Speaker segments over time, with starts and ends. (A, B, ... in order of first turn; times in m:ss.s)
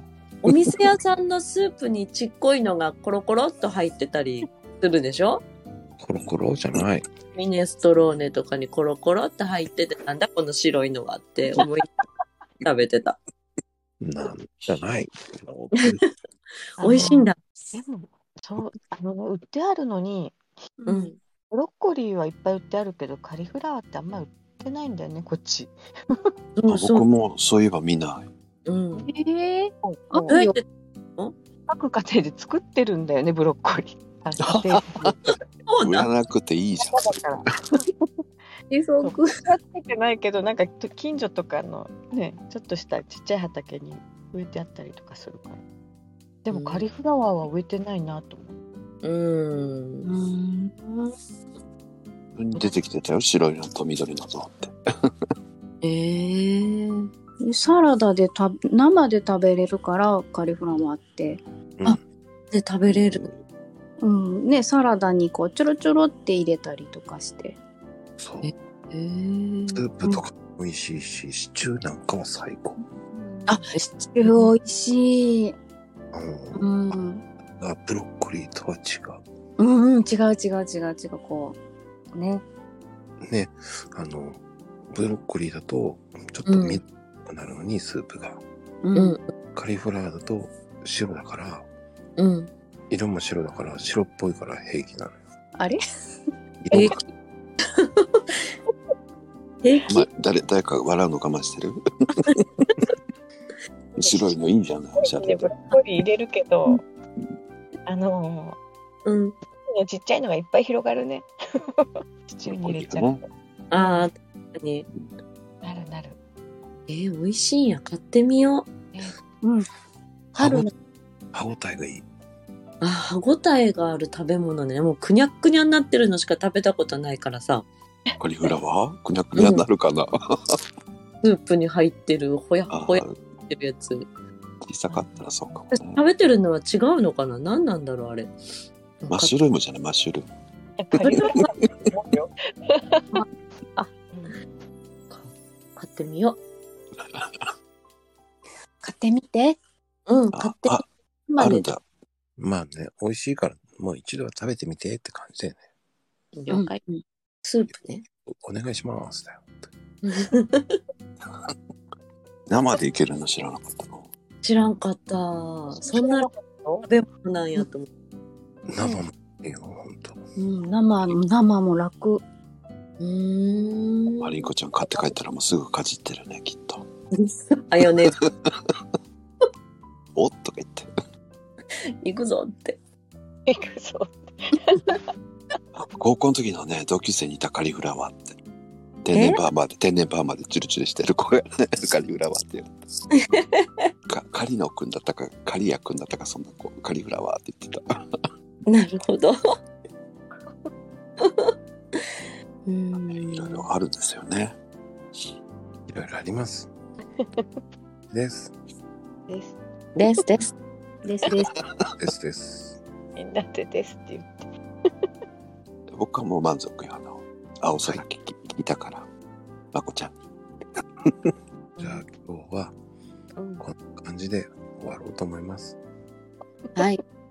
0:00.4-0:05.4 A
0:06.0-0:07.1 B
0:07.3-0:11.8 A
0:12.6-0:13.2 A
0:14.0-0:16.0 B
0:16.8-0:17.4 A
0:16.8-0:20.4 C
0:20.8-0:21.1 D
0:20.9-0:21.2 A
0:21.5-0:26.3 C
0:26.6-0:27.1 A
0:26.7-0:28.3 E
0:28.7-0:29.1 A
0:29.0-0:30.6 D
0:29.8-0:30.4 C
0:30.3-0:30.6 A
0:31.7-0:35.4 C
0:34.4-0:37.2 E
0:35.7-0:36.1 A
0:36.8-0:38.0 C
0:38.7-0:39.4 D
0:39.0-0:45.6 C
0:46.4-0:48.6 C
0:46.5-0:46.9 A
0:49.0-0:50.1 A
0:50.0-0:51.1 D
0:52.4-0:55.1 E
0:55.8-0:57.1 A
0:57.4-1:01.4 D
1:02.5-1:03.2 A
1:02.9-1:03.3 B
1:04.0-1:07.6 D
1:08.2-1:08.5 B
1:08.4-1:09.8 A
1:09.7-1:12.8 B
1:13.4-1:15.6 D
1:13.5-1:14.5 A
1:16.1-1:16.7 B
1:16.6-1:17.2 D
1:17.6-1:19.2 B
1:19.6-1:21.6 D
1:22.1-1:22.4 D
1:23.2-1:24.4 B
1:24.9-1:28.4 B
1:26.5-1:26.8 A
1:28.8-1:29.2 D
1:29.0-1:29.3 A
1:29.5-1:31.6 B
1:32.2-1:32.5 A
1:32.9-1:35.2 B
1:35.6-1:36.2 D
1:36.6-1:37.0 B
1:37.8-1:38.5 A
1:39.6-1:40.1 A
1:39.9-1:42.6 E
1:44.0-1:45.5 E
1:45.0-1:46.8 C
1:47.9-1:48.6 C
1:49.0-1:49.4 A
1:49.7-1:54.1 C
1:52.5-1:53.2 E
1:53.7-1:54.9 A
1:55.6-1:56.2 C
1:56.9-1:58.7 A
1:58.9-1:59.2 C
1:59.4-1:59.7 D
2:00.4-2:00.7 B
2:00.4-2:00.7 D
2:01.3-2:02.0 B
2:02.8-2:07.7 A
2:08.2-2:10.6 E
2:09.4-2:09.7 A
2:11.2-2:14.1 A
2:12.7-2:13.2 E
2:14.7-2:16.0 E
2:14.9-2:15.2 C
2:15.8-2:18.3 A
2:19.0-2:19.3 A
2:19.1-2:20.3 E
2:20.8-2:23.0 C
2:21.0-2:21.4 A
2:21.1-2:21.5 E
2:23.1-2:23.9 A
2:24.1-2:24.4 C
2:25.1-2:26.4 A
2:27.0-2:27.5 E
2:28.8-2:29.6 D
2:30.1-2:31.7 A
2:30.3-2:30.8 E
2:31.4-2:31.8 E
2:32.4-2:35.6 B
2:36.3-2:36.8 A
2:36.5-2:37.0 D
2:37.4-2:38.0 A
2:38.3-2:39.7 B
2:40.0-2:40.8 A
2:41.2-2:41.5 E
2:42.5-2:44.1 E
2:44.4-2:46.3 A
2:45.8-2:46.8 C
2:46.8-2:47.9 A
2:48.7-2:50.2 B
2:50.4-2:52.2 D
2:53.0-2:54.5 A
2:54.2-2:56.9 E
2:57.1-2:58.2 A
2:57.9-2:58.7 E
3:00.2-3:00.9 E
3:01.7-3:02.8 A
3:03.5-3:05.0 C
3:05.7-3:08.4 E
3:09.0-3:12.8 E
3:09.1-3:09.4 A
3:13.1-3:13.9 A
3:14.1-3:17.8 E
3:18.7-3:19.4 A
3:21.2-3:22.1 A
3:22.7-3:23.6 A
3:23.1-3:24.6 E
3:25.9-3:26.7 B
3:28.1-3:28.5 B
3:29.3-3:30.2 C
3:30.0-3:30.5 A
3:31.0-3:31.5 D
3:31.3-3:31.9 E
3:32.0-3:32.8 B
3:33.2-3:34.4 C
3:35.9-3:39.1 E
3:39.7-3:40.1 E
3:41.0-3:41.3 E
3:41.8-3:42.7 B
3:43.6-3:45.8 B